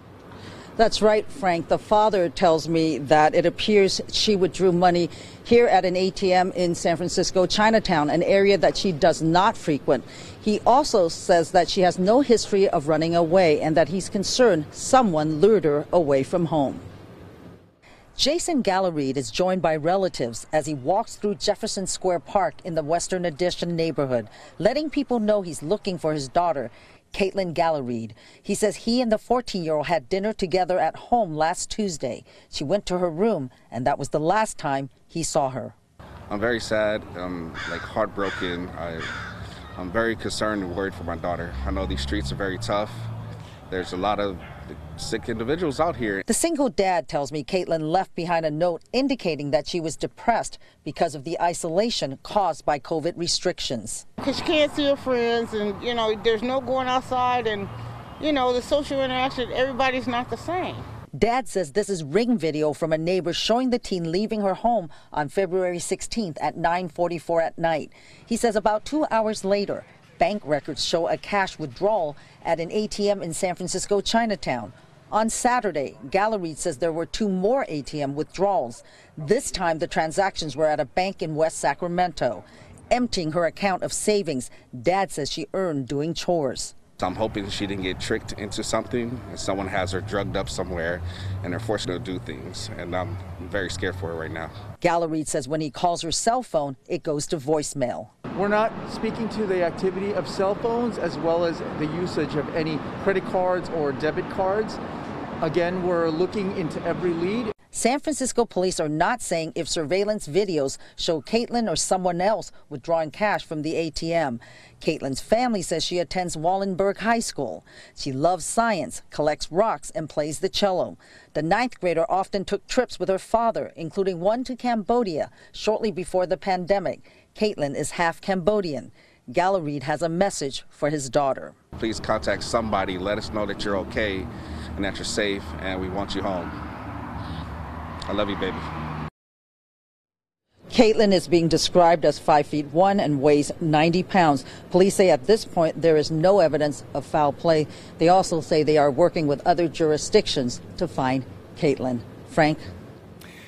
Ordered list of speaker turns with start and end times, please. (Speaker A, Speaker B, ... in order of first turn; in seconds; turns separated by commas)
Speaker A: 0.8-16.9, Speaker A: 18.2-35.7, Speaker B: 36.3-39.1, Speaker B: 39.8-43.1, Speaker B: 43.7-46.3, Speaker A: 46.3-54.1, Speaker C: 54.2-60.8, Speaker A: 61.1-86.8, Speaker B: 87.0-94.5, Speaker A: 94.8-98.1, Speaker D: 98.3-104.8, Speaker D: 105.4-107.5, Speaker A: 107.7-131.6, Speaker B: 131.8-136.6, Speaker B: 138.1-138.7, Speaker A: 140.7-152.6